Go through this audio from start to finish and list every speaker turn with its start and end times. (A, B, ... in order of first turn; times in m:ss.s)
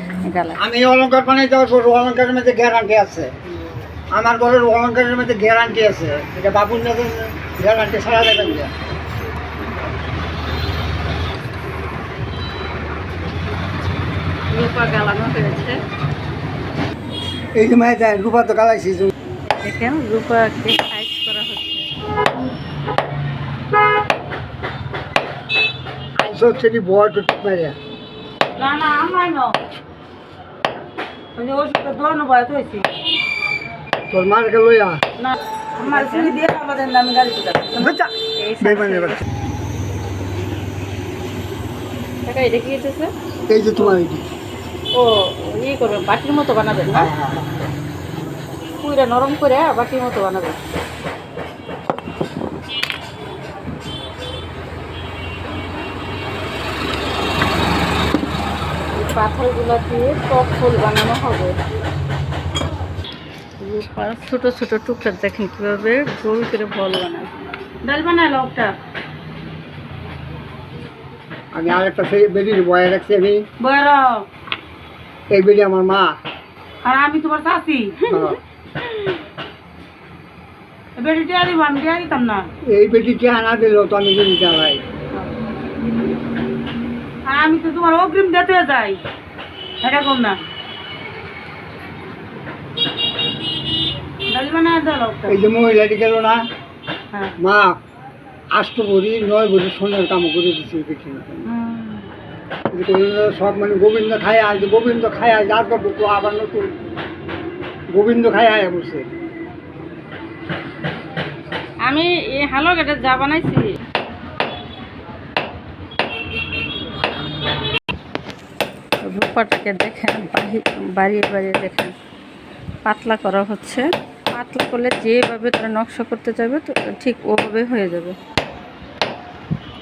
0:00.2-0:00.6 A
0:00.6-0:03.3 B
0:04.1-0:08.7 B
0:14.5-0:15.8 A
0:17.6-0:19.1 B
0:19.6-0:21.9 A
0:26.2-0:27.8 B
0:28.6-0:29.5 C
0:31.4-0:32.9 C
0:34.1-0:35.0 B
0:35.2-0:38.0 C
0:35.8-0:36.4 A
0:37.8-0:39.2 B
0:38.4-0:39.2 A
0:42.2-0:43.1 A
0:43.5-0:44.2 B
0:45.0-0:47.1 A
0:46.9-0:47.5 B
0:48.8-0:50.6 A
0:59.0-1:01.5 A
1:03.6-1:07.3 A
1:07.8-1:08.7 C
1:11.5-1:13.4 B
1:13.6-1:14.1 C
1:15.3-1:16.1 B
1:16.8-1:18.2 C
1:18.1-1:18.4 B
1:21.0-1:22.5 C
1:22.7-1:24.8 B
1:27.3-1:29.0 C
1:29.8-1:30.4 C
1:34.3-1:35.4 C
1:35.3-1:36.4 B
1:37.4-1:37.8 B
1:38.6-1:41.4 B
1:41.5-1:42.1 C
1:42.7-1:46.7 B
1:47.9-1:49.0 B
1:51.9-1:53.7 A
1:59.0-2:01.9 A
2:02.9-2:08.2 A